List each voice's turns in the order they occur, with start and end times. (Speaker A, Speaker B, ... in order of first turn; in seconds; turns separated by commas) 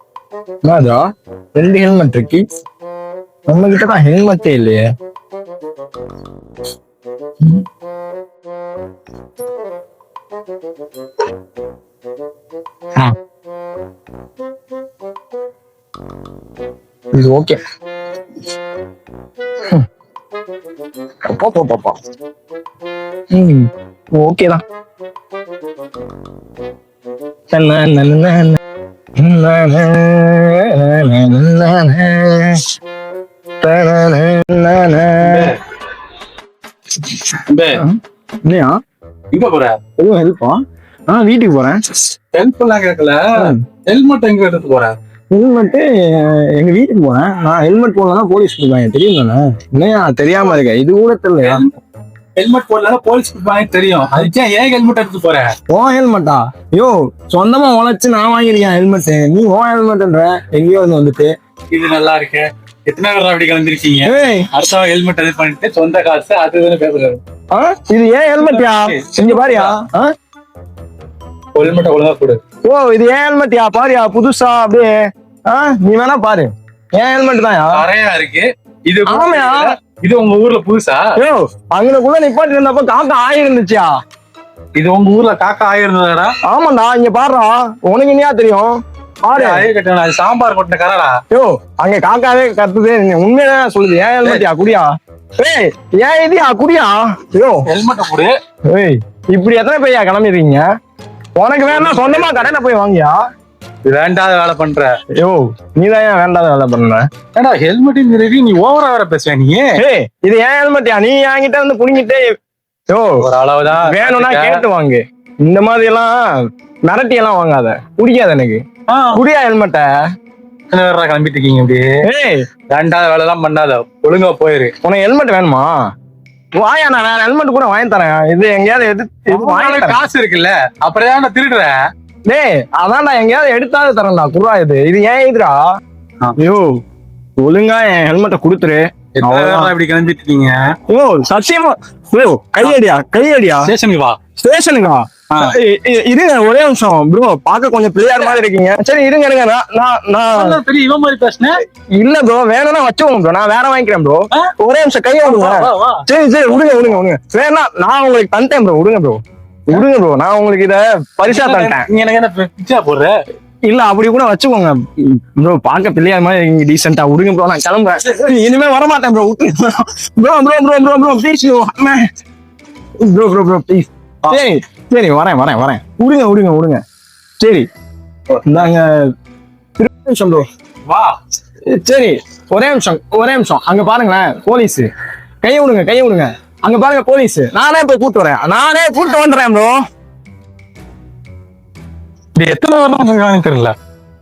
Speaker A: 0.7-2.4, Speaker A: 3.5-4.9, Speaker A: 17.1-17.6, Speaker A: 21.3-22.0, Speaker A: 23.3-24.6, Speaker A: 27.5-28.6, Speaker A: 29.2-32.6, Speaker A: 33.6-35.5, Speaker B: 35.2-35.6, Speaker B: 37.5-37.8, Speaker A: 37.8-38.8, Speaker B: 39.3-39.8, Speaker A: 40.0-41.8, Speaker B: 42.3-45.0, Speaker A: 43.4-43.6, Speaker A: 45.3-51.7, Speaker B: 51.4-51.7, Speaker B: 52.4-55.5, Speaker A: 55.7-61.4, Speaker B: 61.7-67.2, Speaker A: 64.1-64.5, Speaker A: 67.5-70.1, Speaker B: 68.4-69.8, Speaker B: 71.5-72.4, Speaker A: 72.7-74.9, Speaker A: 75.5-77.8, Speaker B: 77.7-81.1, Speaker A: 79.1-79.7, Speaker A: 81.2-83.9, Speaker B: 84.8-86.3, Speaker A: 86.5-89.7, Speaker B: 89.3-91.2, Speaker A: 91.3-94.9, Speaker A: 95.4-97.7, Speaker B: 97.7-98.3, Speaker A: 98.7-100.7, Speaker A: 101.4-103.2, Speaker B: 101.7-102.5, Speaker B: 103.8-104.9, Speaker A: 105.2-107.1, Speaker B: 107.3-109.8, Speaker A: 109.8-112.2, Speaker A: 112.9-113.2, Speaker B: 113.2-114.6, Speaker A: 113.8-116.3, Speaker A: 116.9-119.9, Speaker B: 118.9-119.2, Speaker B: 120.7-122.0, Speaker A: 122.0-122.4, Speaker B: 122.7-124.7, Speaker A: 124.8-125.7, Speaker A: 126.6-130.0, Speaker B: 129.3-131.8, Speaker A: 132.3-135.6, Speaker A: 136.4-136.8, Speaker A: 137.4-139.7, Speaker B: 139.2-140.7, Speaker A: 140.9-143.7, Speaker B: 143.6-144.2, Speaker A: 144.4-150.6, Speaker B: 145.3-145.6, Speaker B: 148.1-148.4, Speaker B: 150.3-151.6, Speaker A: 152.0-161.9, Speaker B: 155.2-156.0, Speaker B: 161.3-163.2, Speaker A: 163.7-172.0, Speaker A: 173.1-176.8, Speaker A: 177.4-177.7, Speaker B: 178.3-178.7, Speaker A: 178.4-179.1, Speaker A: 179.8-180.5, Speaker B: 180.9-181.2, Speaker A: 181.7-184.9, Speaker A: 185.4-189.8, Speaker B: 192.4-193.7